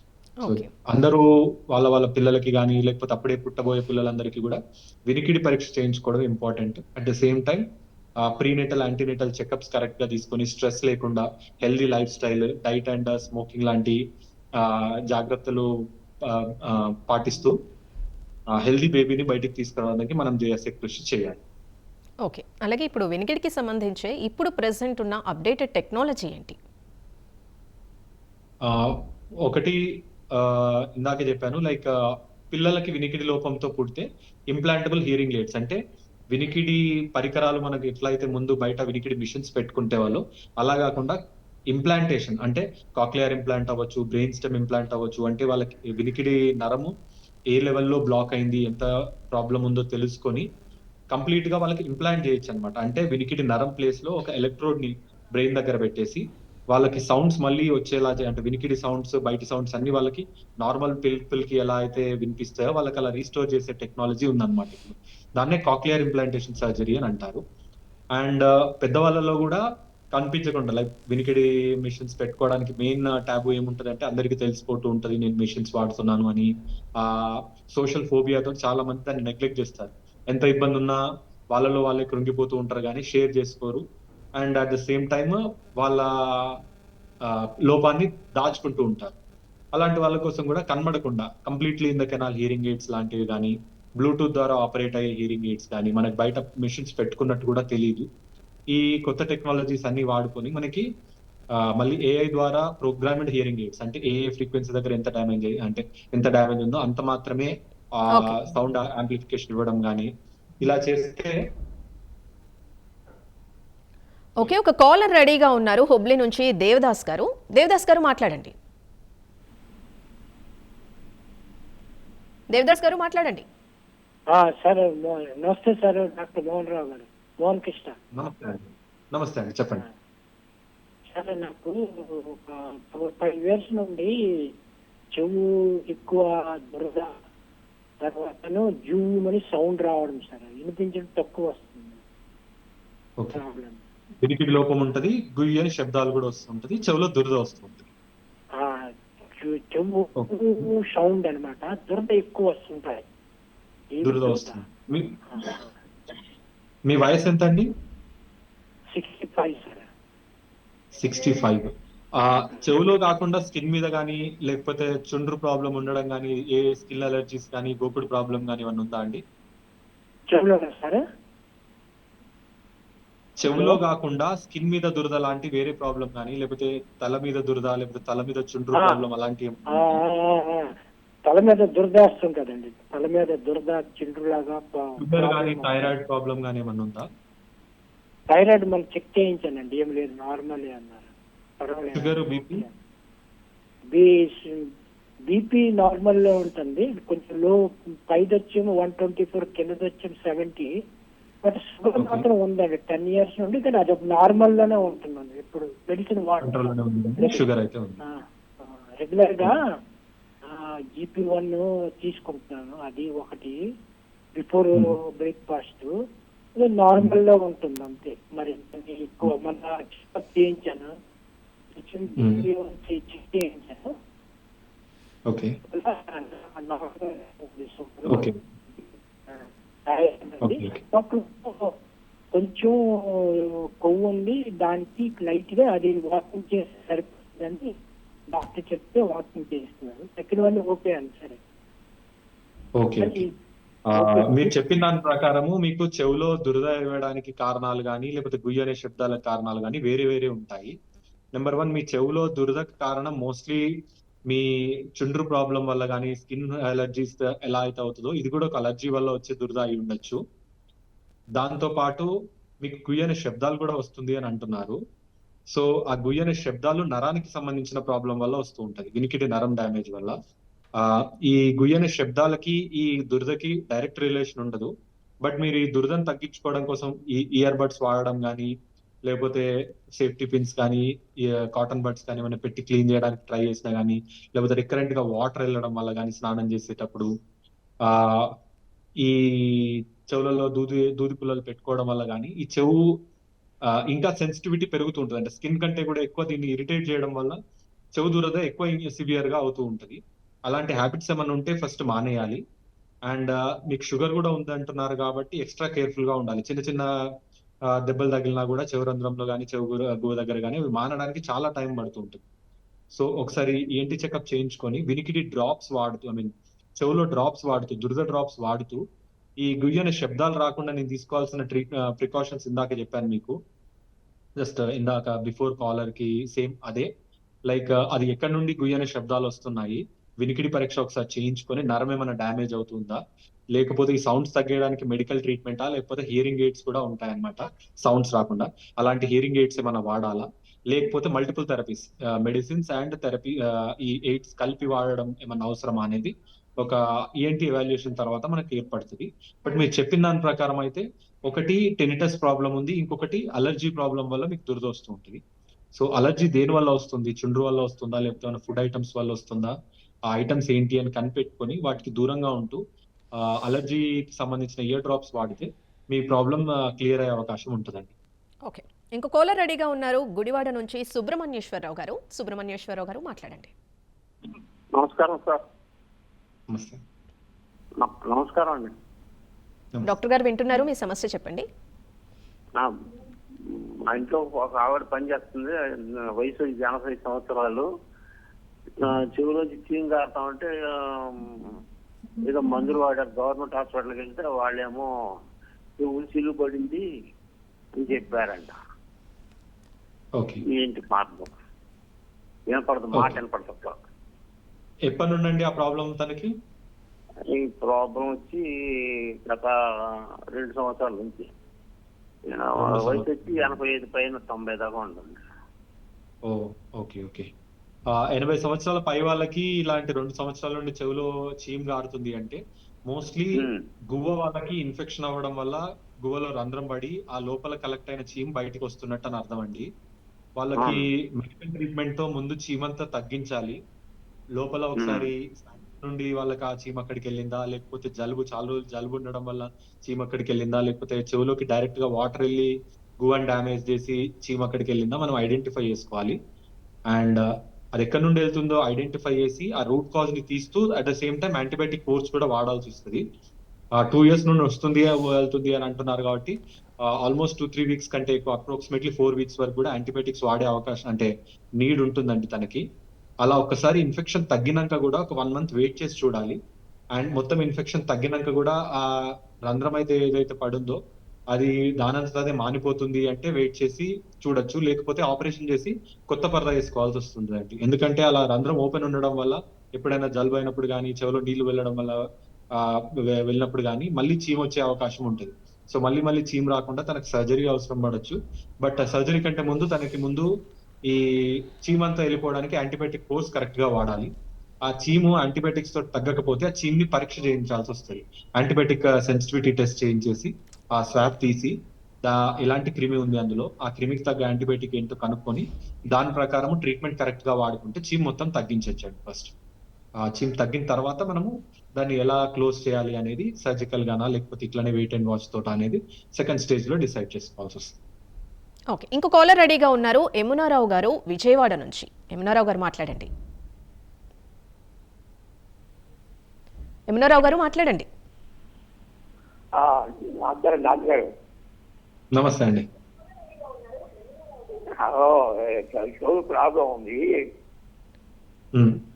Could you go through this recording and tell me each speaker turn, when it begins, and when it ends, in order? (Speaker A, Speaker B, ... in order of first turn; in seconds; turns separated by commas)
Speaker A: 0.4-0.7, Speaker B: 0.5-7.6, Speaker B: 8.2-14.0, Speaker B: 14.6-15.7, Speaker B: 16.2-17.5, Speaker B: 18.6-21.4, Speaker A: 22.2-26.6, Speaker B: 28.6-29.8, Speaker B: 30.3-31.9, Speaker B: 32.5-35.8, Speaker B: 36.3-41.2, Speaker B: 41.7-46.9, Speaker B: 47.5-50.5, Speaker B: 51.1-67.4, Speaker B: 68.2-69.6, Speaker B: 70.2-81.0, Speaker B: 81.5-83.8, Speaker B: 84.4-86.6, Speaker B: 87.2-89.2, Speaker B: 89.8-98.1, Speaker B: 98.7-100.8, Speaker B: 101.8-110.1, Speaker A: 108.1-108.4, Speaker B: 110.6-111.4, Speaker A: 114.4-118.5, Speaker A: 122.5-123.5, Speaker C: 124.3-128.0, Speaker B: 128.2-129.8, Speaker C: 131.1-134.1, Speaker C: 135.2-137.2, Speaker C: 138.0-142.0, Speaker C: 143.3-143.8, Speaker B: 144.2-147.9, Speaker C: 148.6-153.1, Speaker C: 153.9-154.6, Speaker B: 154.0-155.6, Speaker C: 155.3-155.7, Speaker B: 156.9-157.7, Speaker C: 158.9-159.9, Speaker B: 161.0-169.2, Speaker C: 170.3-171.0, Speaker B: 173.4-180.0, Speaker C: 173.5-173.8, Speaker C: 178.8-179.0, Speaker C: 179.7-180.7, Speaker C: 181.3-185.9, Speaker B: 185.0-187.1, Speaker C: 188.3-192.8, Speaker B: 191.9-192.7, Speaker C: 193.9-194.7, Speaker C: 195.3-200.7, Speaker C: 201.4-206.7, Speaker B: 202.0-202.2, Speaker B: 206.4-208.0, Speaker C: 207.2-207.5, Speaker C: 209.0-209.7, Speaker C: 210.5-213.6, Speaker C: 214.3-215.9, Speaker C: 216.6-220.9, Speaker C: 221.7-223.9, Speaker B: 222.2-222.4, Speaker B: 225.3-225.6, Speaker C: 225.7-228.4, Speaker B: 228.1-228.3, Speaker C: 229.3-231.7, Speaker B: 230.4-230.8, Speaker C: 232.3-237.7, Speaker C: 238.3-241.4, Speaker B: 242.8-243.2, Speaker C: 243.0-243.3, Speaker C: 243.9-244.5, Speaker B: 243.9-250.7, Speaker B: 251.4-253.7, Speaker B: 254.3-260.2, Speaker B: 261.4-262.1, Speaker B: 262.6-264.8, Speaker B: 265.5-270.1, Speaker B: 270.8-274.7, Speaker B: 275.2-278.5, Speaker B: 279.1-279.5, Speaker B: 280.0-287.1, Speaker B: 287.9-288.3, Speaker B: 289.0-292.8, Speaker B: 293.9-297.4, Speaker B: 298.0-302.4, Speaker B: 303.1-306.9, Speaker B: 307.9-312.2, Speaker B: 312.9-318.8, Speaker B: 319.4-323.4, Speaker B: 324.4-326.9, Speaker B: 327.5-333.0, Speaker B: 333.5-355.2, Speaker B: 355.7-359.6, Speaker B: 360.1-362.6, Speaker B: 363.4-367.9, Speaker A: 368.5-373.5, Speaker D: 374.7-375.4, Speaker B: 376.5-376.8, Speaker D: 377.8-378.7, Speaker A: 379.9-381.5, Speaker D: 383.5-387.7, Speaker D: 388.8-391.5, Speaker D: 392.2-394.9, Speaker D: 395.8-396.8, Speaker D: 397.8-398.5, Speaker B: 400.2-400.4, Speaker D: 400.5-401.3, Speaker D: 402.5-403.8, Speaker B: 404.9-406.3, Speaker D: 407.3-411.3, Speaker D: 412.3-415.2, Speaker B: 412.6-413.6, Speaker B: 416.3-417.3, Speaker B: 417.9-429.7, Speaker D: 423.4-423.6, Speaker B: 430.4-433.6, Speaker B: 434.4-446.2, Speaker D: 434.8-435.1, Speaker B: 446.9-447.2, Speaker B: 447.8-453.0, Speaker B: 453.8-456.4, Speaker B: 456.9-462.6, Speaker B: 463.2-466.4, Speaker B: 467.0-468.9, Speaker B: 469.5-470.8, Speaker B: 471.3-482.0, Speaker B: 482.6-490.3, Speaker B: 491.6-494.1, Speaker B: 494.7-509.3, Speaker B: 510.1-517.8, Speaker A: 518.7-523.1, Speaker A: 526.9-527.9, Speaker D: 529.6-531.1, Speaker B: 532.1-532.7, Speaker D: 534.8-537.0